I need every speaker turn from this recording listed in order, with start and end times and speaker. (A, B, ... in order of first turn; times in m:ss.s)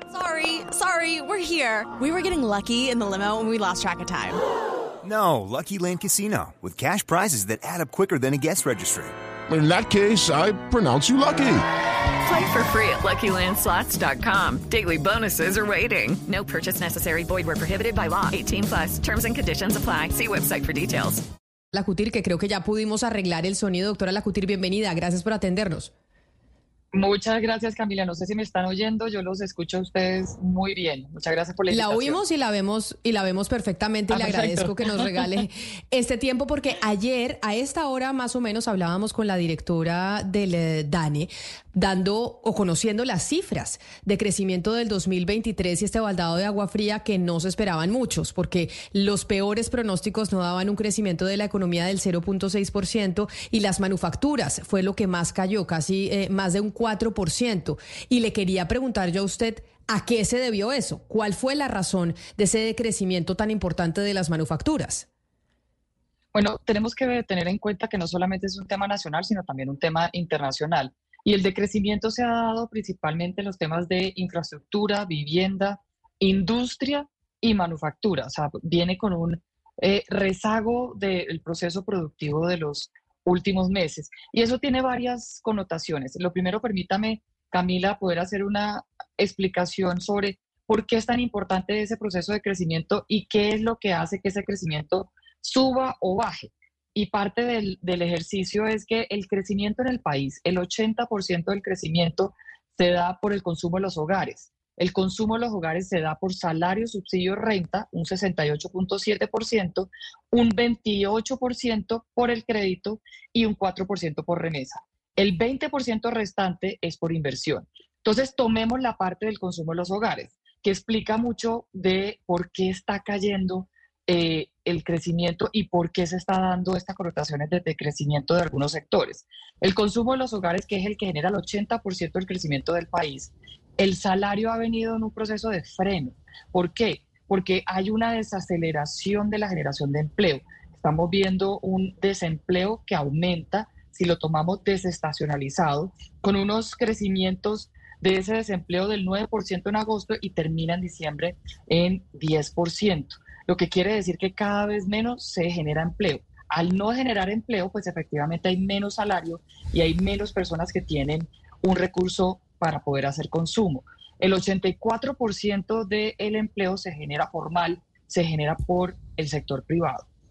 0:00.1-0:04.4 A
0:05.1-0:09.1 B
0:09.5-0:11.6 C
0:12.2-0:21.2 D
0:21.7-0:25.9 E
0:26.9-0:32.2 F
0:31.7-1:05.1 E
0:34.1-0:35.4 F
1:06.3-2:50.1 F